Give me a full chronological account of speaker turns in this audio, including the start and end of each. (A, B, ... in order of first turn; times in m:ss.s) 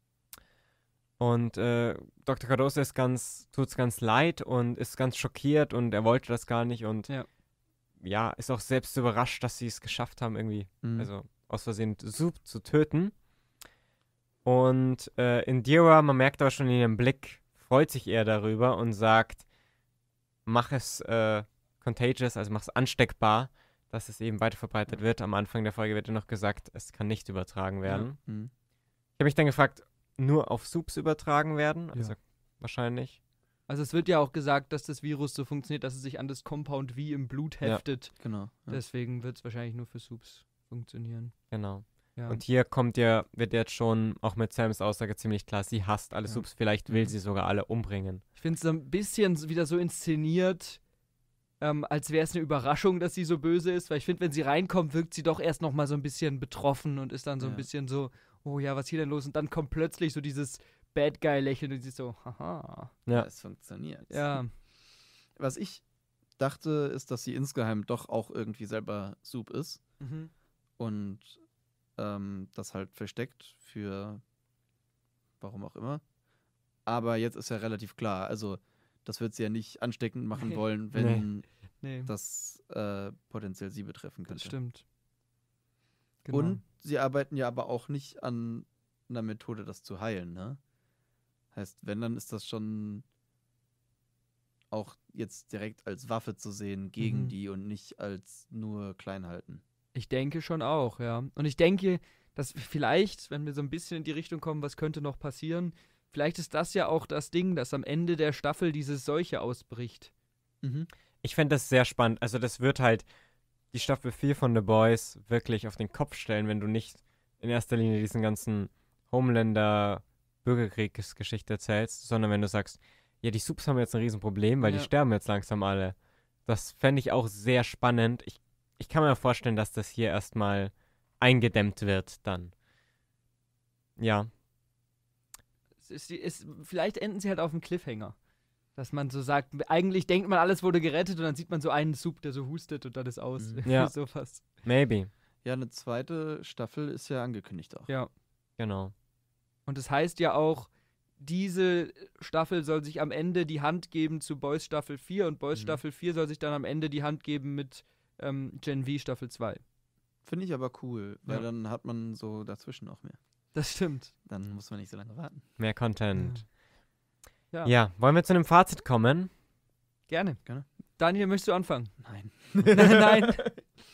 0:01.2-0:07.1 A
0:08.0-0:13.1 A
0:10.8-0:11.1 B
0:14.4-0:19.4 A
0:20.5-0:28.2 A
0:28.2-0:28.5 B
0:29.2-0:33.2 A
0:33.7-0:41.4 C
0:38.2-0:38.8 B
0:41.5-0:48.2 A
0:46.3-0:47.1 B
0:48.4-0:50.8 C
0:51.6-1:02.9 C
0:57.4-0:57.7 B
1:03.1-1:04.4 B
1:04.1-1:04.5 C
1:05.4-1:05.8 B
1:06.4-1:09.8 B
1:10.0-1:10.3 C
1:10.8-1:11.4 B
1:12.0-1:14.2 B
1:15.4-1:16.0 B
1:16.9-1:21.5 B
1:21.0-1:21.3 A
1:21.8-1:22.1 C
1:22.1-1:24.6 B
1:24.3-1:24.8 C
1:26.2-1:26.6 C
1:26.3-1:30.6 B
1:31.5-1:33.0 B
1:34.7-1:39.6 B
1:37.0-1:37.3 C
1:40.0-1:50.1 C
1:50.6-1:50.9 B
1:51.2-1:53.1 A
1:53.7-2:12.5 A
2:04.6-2:04.9 C
2:14.0-2:14.3 A
2:15.8-2:18.2 C
2:18.8-2:24.5 C
2:23.7-2:23.9 A
2:24.6-2:25.1 A
2:25.4-2:27.9 B
2:28.6-2:28.9 A
2:29.7-2:39.6 C
2:35.6-2:35.8 B
2:40.2-2:43.2 B
2:43.5-2:44.1 C
2:44.3-2:45.4 B
2:45.6-2:46.5 A
2:46.2-2:46.4 C
2:47.6-2:49.3 A
2:50.1-2:50.4 C
2:51.0-2:52.0 C
2:52.0-2:53.6 B
2:52.6-2:53.5 C